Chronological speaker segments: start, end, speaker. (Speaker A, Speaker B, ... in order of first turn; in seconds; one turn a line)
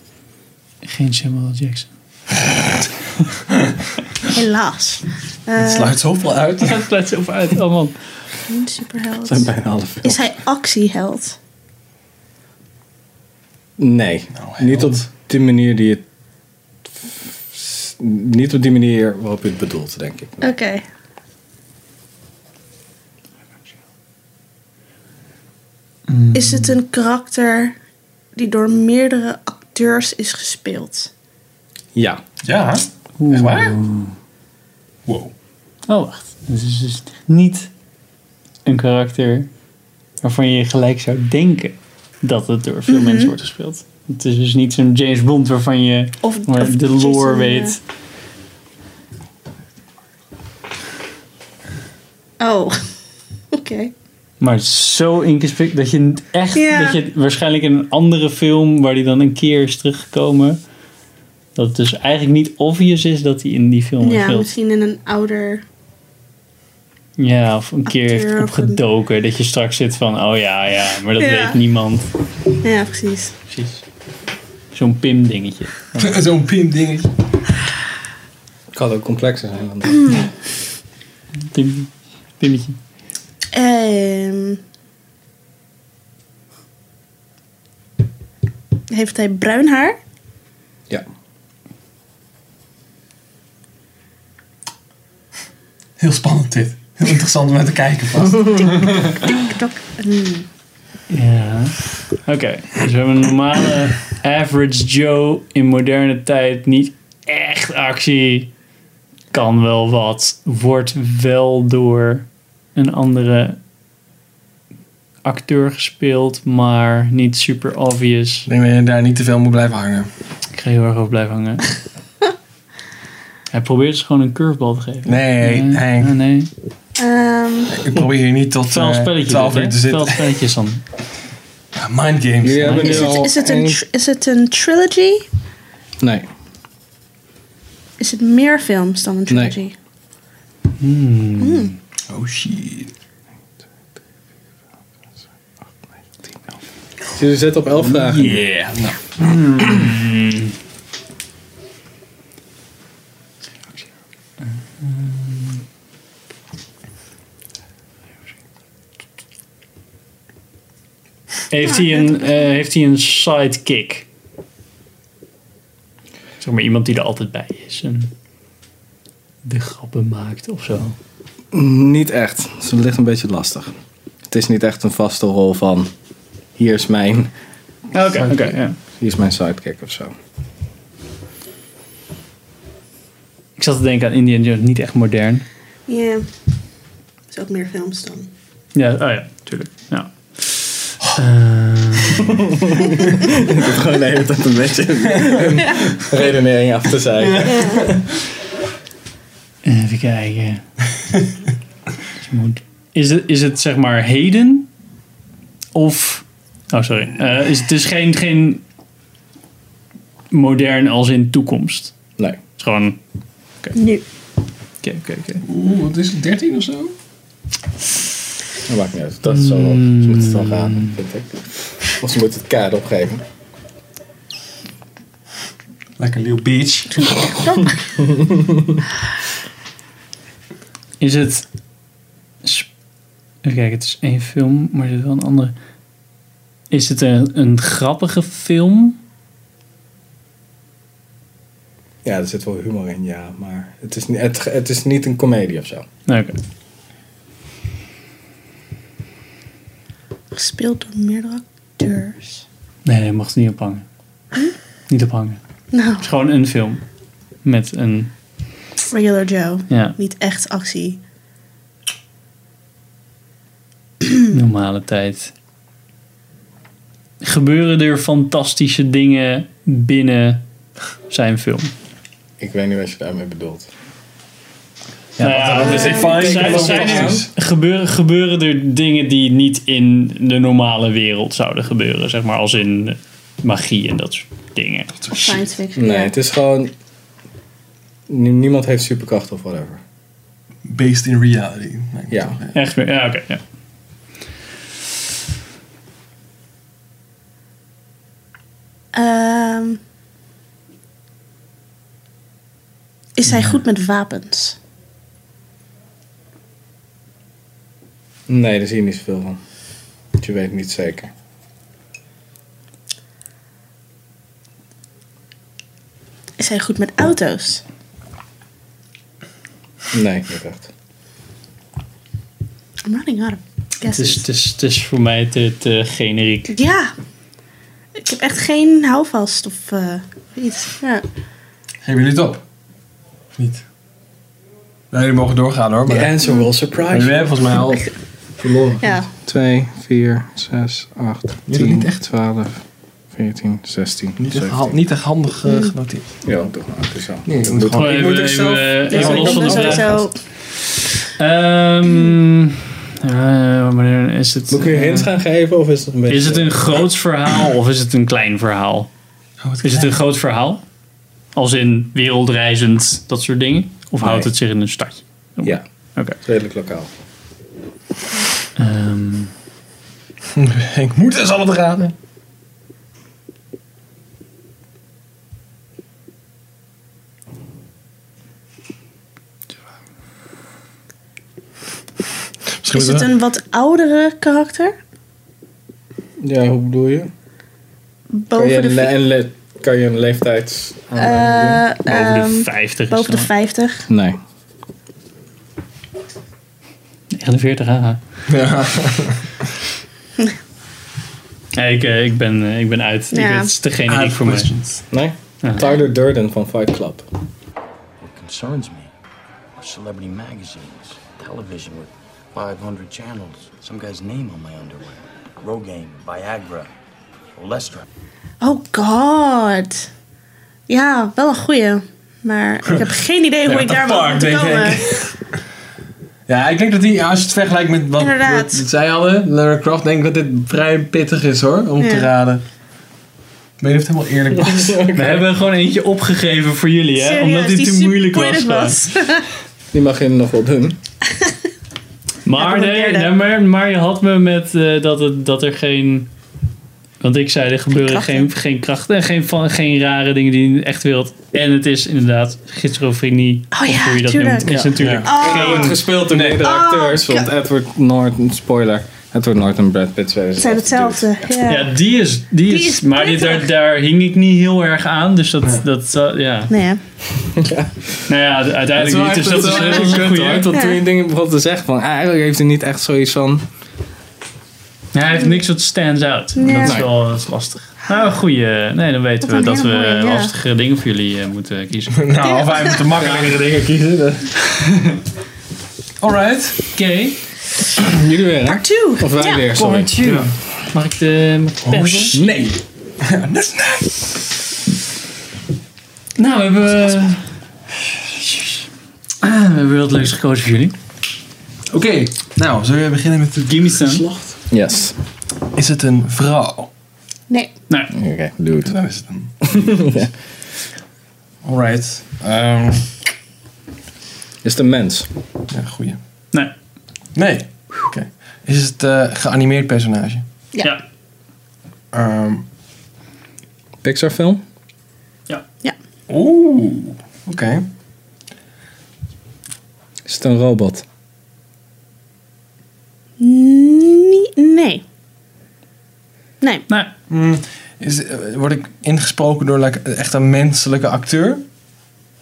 Speaker A: 0.8-1.9
Speaker B: 4.3-6.0
Speaker C: 5.6-6.8
Speaker A: 6.6-8.0
Speaker B: 8.5-9.5
Speaker D: 9.2-10.2
Speaker B: 10.0-11.4
Speaker D: 13.8-16.0
Speaker C: 14.4-15.0
Speaker D: 17.0-20.5
Speaker B: 20.4-20.8
Speaker A: 26.1-26.8
Speaker B: 26.3-27.8
Speaker B: 28.4-31.1
Speaker D: 31.9-32.2
Speaker C: 32.4-33.8
Speaker A: 33.2-34.1
Speaker C: 35.1-35.3
Speaker A: 35.9-37.7
Speaker A: 38.6-39.5
Speaker A: 40.2-47.8
Speaker B: 42.9-43.3
Speaker B: 46.2-47.8
Speaker B: 52.4-52.9
Speaker B: 53.5-53.9
Speaker A: 54.4-60.6
Speaker B: 56.5-57.0
Speaker A: 61.5-64.5
Speaker B: 64.0-65.6
Speaker A: 67.2-72.0
Speaker B: 67.9-68.8
Speaker B: 71.2-71.6
Speaker B: 72.6-73.3
Speaker A: 73.5-73.8
Speaker A: 74.7-76.2
Speaker C: 76.0-77.1
Speaker D: 78.7-80.3
Speaker A: 81.5-82.8
Speaker B: 83.5-84.6
Speaker B: 88.9-90.0
Speaker C: 96.0-98.9
Speaker B: 98.5-100.5
Speaker A: 101.1-108.5
Speaker A: 109.3-113.6
Speaker A: 115.2-118.5
Speaker C: 118.5-120.1
Speaker A: 120.5-121.7
Speaker A: 123.5-126.5
Speaker C: 125.0-126.1
Speaker B: 127.0-127.8
Speaker C: 127.7-130.3
Speaker A: 128.7-130.8
Speaker C: 131.8-133.2
Speaker D: 132.4-133.8
Speaker A: 132.6-133.1
Speaker B: 132.8-135.3
Speaker D: 136.0-136.3
Speaker B: 138.0-139.8
Speaker D: 139.3-139.6
Speaker A: 140.8-141.7
Speaker B: 141.4-141.7
Speaker C: 142.1-142.9
Speaker D: 147.2-148.4
Speaker A: 148.0-148.5
Speaker C: 148.2-149.0
Speaker A: 149.2-150.6
Speaker A: 154.4-155.6
Speaker A: 161.5-164.1
Speaker B: 161.7-162.2
Speaker A: 166.4-168.1
Speaker A: 169.4-171.0
Speaker D: 171.5-173.7
Speaker D: 174.3-175.9
Speaker D: 176.6-177.3
Speaker A: 177.9-178.8
Speaker C: 178.2-178.6
Speaker D: 179.0-180.1
Speaker A: 183.6-185.5
Speaker B: 185.9-186.3
Speaker B: 187.3-188.3
Speaker A: 188.8-192.5
Speaker D: 192.6-198.0
Speaker C: 195.2-195.6
Speaker C: 197.2-198.1
Speaker B: 197.4-197.8
Speaker A: 199.6-200.6
Speaker A: 202.2-204.7
Speaker A: 205.7-208.6
Speaker A: 210.3-212.0
Speaker A: 212.6-213.0
Speaker B: 213.8-214.0
Speaker A: 214.8-215.4
Speaker C: 215.4-216.9
Speaker D: 218.7-223.2
Speaker A: 219.3-221.0
Speaker C: 226.0-227.6
Speaker B: 227.0-227.8
Speaker A: 231.0-231.5
Speaker A: 232.4-232.7
Speaker A: 233.4-235.5
Speaker A: 236.7-239.0
Speaker D: 242.0-245.9
Speaker A: 246.1-246.3
Speaker B: 250.3-252.4
Speaker A: 252.8-253.9
Speaker A: 254.9-255.4
Speaker B: 255.7-256.1
Speaker A: 256.0-256.8
Speaker A: 257.4-258.1
Speaker B: 258.9-261.0
Speaker A: 259.7-260.0
Speaker A: 264.3-265.3
Speaker A: 267.2-270.4
Speaker A: 271.1-271.7
Speaker D: 272.4-273.7
Speaker C: 275.2-277.3
Speaker A: 275.2-284.9
Speaker D: 275.2-277.3
Speaker B: 275.6-276.1
Speaker C: 285.0-285.4
Speaker B: 285.1-286.1
Speaker D: 285.8-286.7
Speaker D: 288.1-289.8
Speaker C: 290.7-292.6
Speaker D: 292.1-292.4
Speaker A: 292.5-293.4
Speaker B: 298.9-299.8
Speaker B: 303.2-304.6
Speaker D: 308.3-309.4
Speaker D: 310.2-311.1
Speaker B: 316.4-317.6
Speaker D: 319.9-320.7
Speaker B: 322.8-324.2
Speaker A: 323.9-326.6
Speaker B: 326.5-326.9
Speaker B: 328.0-331.0
Speaker C: 331.8-332.4
Speaker C: 333.4-333.6
Speaker C: 334.9-336.1
Speaker D: 335.9-337.3
Speaker C: 336.9-337.9
Speaker D: 338.4-344.8
Speaker B: 338.8-339.1
Speaker C: 341.5-342.0
Speaker C: 344.2-346.1
Speaker D: 346.2-348.0
Speaker C: 347.3-350.0
Speaker A: 347.8-350.1
Speaker D: 348.9-350.0
Speaker B: 349.0-350.2
Speaker A: 351.2-355.1
Speaker D: 354.5-356.6
Speaker A: 356.1-358.9
Speaker C: 359.4-360.0
Speaker A: 359.6-360.6
Speaker A: 361.4-366.2
Speaker D: 364.0-364.3
Speaker D: 366.2-366.9
Speaker A: 368.6-369.3
Speaker C: 370.4-371.9
Speaker C: 382.6-383.1
Speaker B: 382.7-384.8
Speaker D: 386.2-387.1
Speaker B: 388.1-388.9
Speaker D: 388.3-391.7
Speaker B: 391.0-393.9
Speaker A: 391.9-393.3
Speaker D: 393.9-394.2
Speaker A: 397.1-398.0
Speaker C: 398.3-399.2
Speaker A: 401.5-404.5
Speaker B: 403.1-403.5
Speaker C: 403.9-404.8
Speaker D: 404.9-407.0
Speaker A: 405.4-405.7
Speaker E: 408.1-408.9
Speaker E: 409.6-416.7
Speaker E: 417.4-417.9
Speaker B: 418.4-419.9
Speaker B: 420.7-424.8
Speaker C: 422.6-425.2
Speaker C: 426.3-432.4
Speaker B: 428.0-428.6
Speaker B: 431.8-432.1
Speaker C: 433.6-434.8
Speaker D: 434.4-435.3
Speaker A: 434.9-438.9
Speaker B: 437.0-439.2
Speaker D: 439.7-440.8
Speaker A: 442.2-446.1
Speaker B: 442.4-443.1
Speaker A: 447.0-455.6
Speaker B: 447.7-448.3
Speaker B: 453.5-457.3
Speaker C: 454.5-456.5
Speaker D: 454.5-461.1
Speaker B: 460.4-461.7
Speaker A: 461.5-466.5
Speaker B: 462.5-463.5
Speaker B: 466.5-466.8
Speaker D: 467.3-467.8
Speaker A: 468.1-470.5
Speaker D: 468.7-473.4
Speaker B: 470.5-470.8
Speaker A: 474.9-482.0
Speaker B: 476.4-476.9
Speaker B: 479.2-480.3
Speaker C: 481.9-484.2
Speaker B: 482.2-482.8
Speaker D: 483.0-484.1
Speaker C: 486.0-486.6
Speaker A: 486.8-487.2
Speaker D: 487.8-489.9
Speaker B: 488.4-489.5
Speaker A: 489.5-492.2
Speaker C: 490.0-490.3
Speaker C: 491.6-492.4
Speaker D: 492.1-492.6
Speaker C: 493.0-494.2
Speaker A: 496.2-497.2
Speaker A: 498.2-498.6
Speaker A: 499.2-500.8
Speaker C: 501.7-504.4
Speaker A: 503.4-504.0
Speaker D: 504.5-504.9
Speaker C: 505.6-506.7
Speaker D: 507.9-508.8
Speaker C: 508.6-509.6
Speaker D: 509.4-510.1
Speaker C: 511.4-512.9
Speaker D: 514.4-515.1
Speaker C: 515.5-516.0
Speaker C: 517.1-520.2
Speaker C: 521.9-522.5
Speaker D: 523.8-524.4
Speaker C: 526.1-527.6
Speaker D: 530.0-530.8
Speaker B: 533.2-534.8
Speaker B: 536.4-536.7
Speaker C: 537.1-541.4